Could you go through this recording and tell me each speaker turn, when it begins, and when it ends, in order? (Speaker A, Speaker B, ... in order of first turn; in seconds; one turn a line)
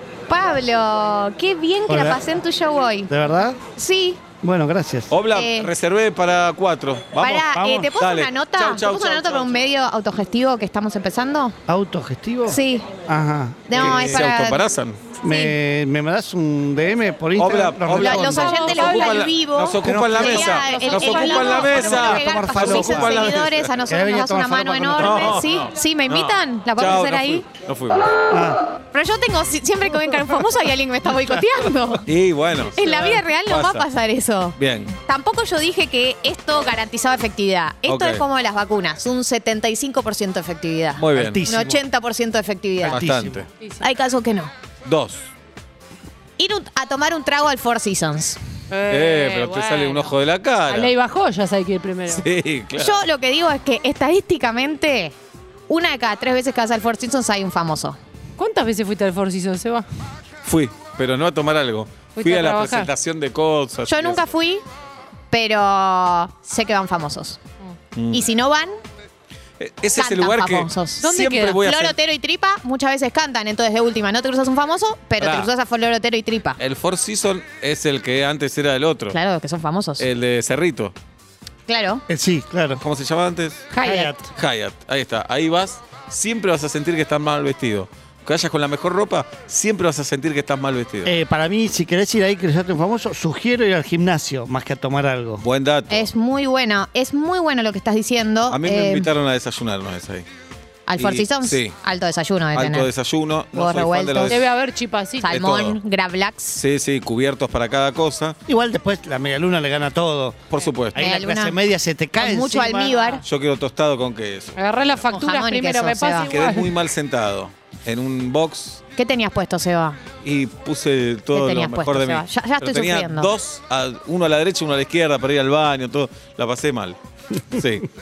Speaker A: 0.3-3.1
Speaker B: 1.9-2.2
Speaker B: 3.1-3.6
Speaker A: 3.8-4.2
Speaker B: 4.4-5.1
Speaker C: 5.1-9.7
Speaker A: 5.3-5.7
Speaker A: 7.2-11.6
Speaker B: 7.5-7.9
Speaker B: 11.7-14.3
Speaker A: 12.5-13.0
Speaker A: 13.7-14.7
Speaker C: 13.7-15.2
Speaker B: 15.2-18.5
Speaker A: 15.3-15.6
Speaker C: 17.4-23.9
Speaker A: 18.0-27.5
Speaker D: 18.3-19.3
Speaker B: 19.8-20.8
Speaker D: 20.2-21.9
Speaker B: 21.6-23.3
Speaker B: 23.9-25.4
Speaker C: 25.0-28.1
Speaker B: 28.3-28.6
Speaker A: 28.9-32.1
Speaker C: 32.0-33.9
Speaker A: 32.7-43.0
Speaker C: 34.6-35.0
Speaker C: 37.9-38.2
Speaker C: 41.0-41.5
Speaker B: 41.1-41.8
Speaker B: 42.8-43.5
Speaker C: 42.9-43.5
Speaker A: 43.8-44.5
Speaker C: 44.9-45.3
Speaker A: 46.4-48.4
Speaker D: 48.7-52.2
Speaker C: 48.9-50.9
Speaker C: 52.1-53.1
Speaker A: 52.8-55.1
Speaker A: 55.7-58.0
Speaker D: 58.4-59.9
Speaker C: 60.4-64.3
Speaker D: 62.1-62.9
Speaker A: 63.9-64.7
Speaker A: 65.3-67.4
Speaker C: 68.0-68.3
Speaker A: 68.1-68.8
Speaker C: 69.6-72.0
Speaker A: 69.9-71.1
Speaker D: 71.0-71.6
Speaker A: 71.6-76.6
Speaker C: 75.2-75.5
Speaker C: 76.6-79.2
Speaker A: 79.1-80.1
Speaker C: 80.0-80.9
Speaker A: 81.7-82.0
Speaker B: 82.1-82.8
Speaker C: 82.8-83.7
Speaker D: 83.7-84.2
Speaker B: 83.8-84.2
Speaker C: 84.3-91.1
Speaker B: 91.0-95.5
Speaker C: 95.4-96.1
Speaker A: 95.9-99.1
Speaker C: 98.5-100.3
Speaker A: 100.9-102.9
Speaker C: 101.0-101.8
Speaker C: 102.5-104.4
Speaker A: 103.5-104.4
Speaker D: 104.2-105.3
Speaker A: 105.2-106.6
Speaker C: 105.2-105.8
Speaker C: 106.5-108.4
Speaker B: 108.5-110.4
Speaker C: 110.5-111.1
Speaker B: 110.9-113.0
Speaker A: 111.0-111.6
Speaker A: 112.2-113.2
Speaker C: 113.2-114.6
Speaker D: 114.6-116.8
Speaker A: 115.1-116.3
Speaker C: 116.2-118.8
Speaker A: 119.0-120.1
Speaker C: 120.2-127.0
Speaker A: 121.4-123.4
Speaker C: 127.5-127.9